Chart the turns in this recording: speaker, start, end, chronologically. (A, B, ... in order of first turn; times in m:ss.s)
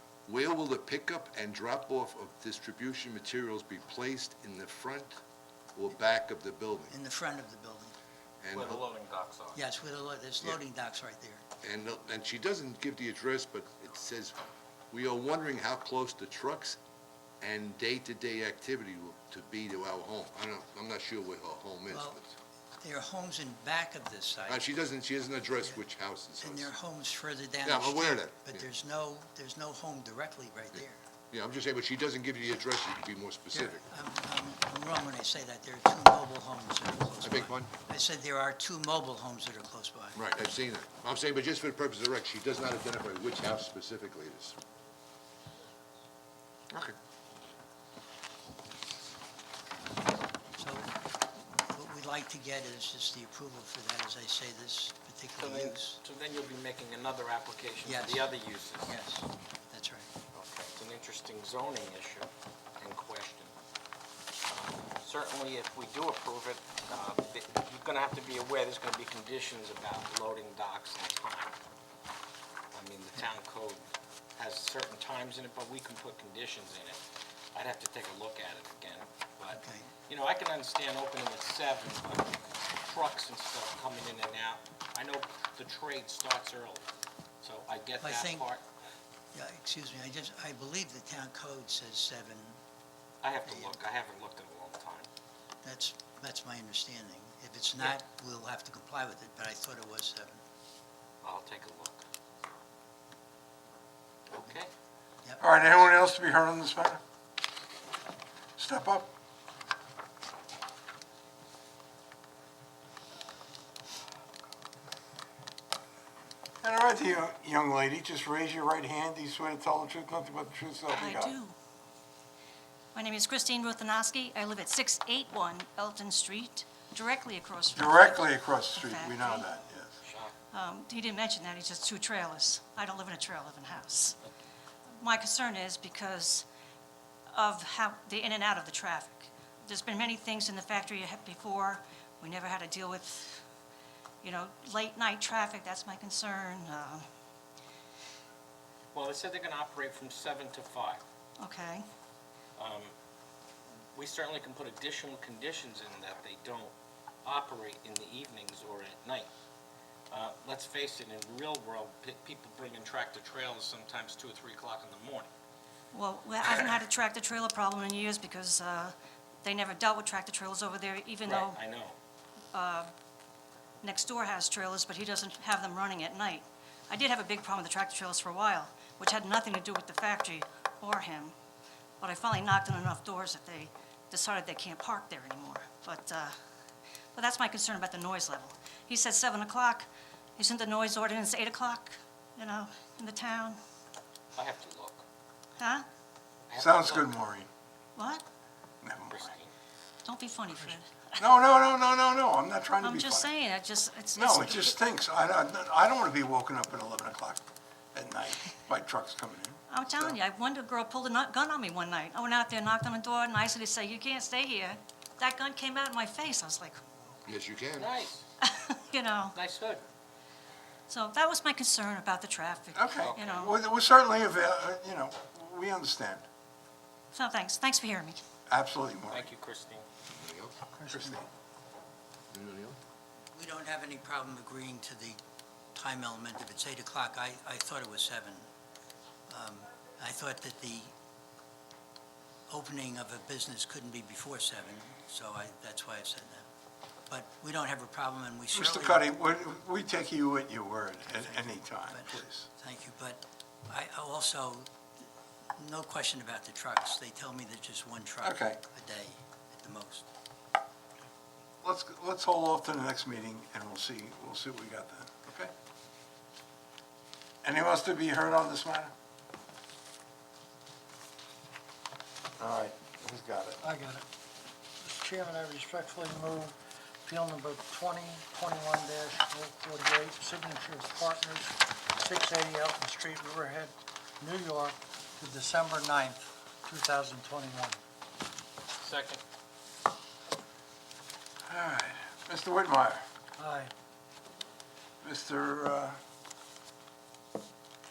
0:00.2-0:05.2 A
0:05.7-0:06.9 A
0:06.9-0:07.9 B
0:08.4-0:08.8 A
0:08.5-0:09.6 C
0:09.5-0:11.4 B
0:11.6-0:14.4 A
0:14.9-0:16.8 A
0:17.4-0:22.3 A
0:21.9-0:22.2 B
0:22.8-0:24.7 B
0:24.5-0:26.7 A
0:26.4-0:31.0 B
0:27.6-0:28.7 A
0:31.3-0:33.8 A
0:33.5-0:40.2 B
0:37.2-0:37.7 A
0:40.1-0:44.6 A
0:46.7-0:47.0 A
0:50.6-0:50.9 B
0:51.5-0:56.0 B
0:55.4-0:58.9 C
0:57.8-1:00.1 B
1:00.3-1:02.3 C
1:02.8-1:03.5 C
1:04.5-1:11.5 C
1:12.7-1:13.8 C
1:14.4-1:17.0 C
1:17.5-1:26.8 C
1:19.5-1:19.9 B
1:27.4-1:28.6 C
1:28.0-1:28.5 B
1:29.3-1:32.6 B
1:33.2-1:35.1 C
1:33.4-1:33.8 B
1:35.6-1:40.4 B
1:41.2-1:42.0 C
1:44.3-1:44.7 C
1:45.4-1:47.0 D
1:48.6-1:49.1 D
1:56.6-2:01.3 D
2:00.9-2:01.5 E
2:02.9-2:09.6 E
2:07.7-2:09.9 D
2:10.0-2:10.3 C
2:10.5-2:14.2 E
2:15.0-2:16.5 E
2:17.3-2:23.4 E
2:24.2-2:27.0 E
2:28.9-2:31.0 C
2:31.4-2:31.8 E
2:32.6-2:32.9 C
2:33.9-2:36.7 C
2:37.2-2:39.3 C
2:40.1-2:45.3 C
2:45.9-2:51.6 E
2:51.2-2:52.0 C
2:52.5-2:52.9 E
2:53.8-3:01.3 E
3:02.0-3:06.3 E
3:07.1-3:13.6 E
3:14.3-3:15.0 C
3:15.6-3:15.8 E
3:16.5-3:17.2 C
3:16.6-3:17.5 D
3:18.0-3:18.2 E
3:18.8-3:19.2 D
3:19.0-3:19.5 C
3:20.0-3:21.2 E
3:21.2-3:23.3 D
3:22.8-3:24.8 E
3:24.1-3:27.4 D
3:27.9-3:30.2 D
3:29.7-3:36.8 E
3:37.2-3:37.9 A
3:37.8-3:38.2 C
3:38.4-3:39.4 E
3:39.3-3:39.8 C
3:40.9-3:43.5 E
3:42.7-3:46.2 D
3:43.0-3:43.5 C
3:47.1-3:48.2 E
3:48.5-3:49.3 D
3:49.1-3:49.8 C
3:50.1-3:50.6 A
3:50.8-3:51.2 F
3:50.9-3:51.2 D
3:52.3-3:52.8 A
3:53.3-3:55.2 B
3:55.7-3:58.4 B
3:59.3-4:00.9 B
4:02.5-4:06.5 B
4:07.1-4:09.0 B
4:08.5-4:12.4 D
4:11.2-4:14.7 B
4:15.6-4:20.1 B
4:18.2-4:18.6 D
4:21.6-4:25.5 D
4:27.4-4:28.9 D
4:32.4-4:33.6 D
4:33.6-4:34.0 F
4:34.8-4:47.8 F
4:48.8-4:49.2 C
4:51.5-4:53.0 D
4:53.4-4:53.7 F
4:55.0-4:56.0 D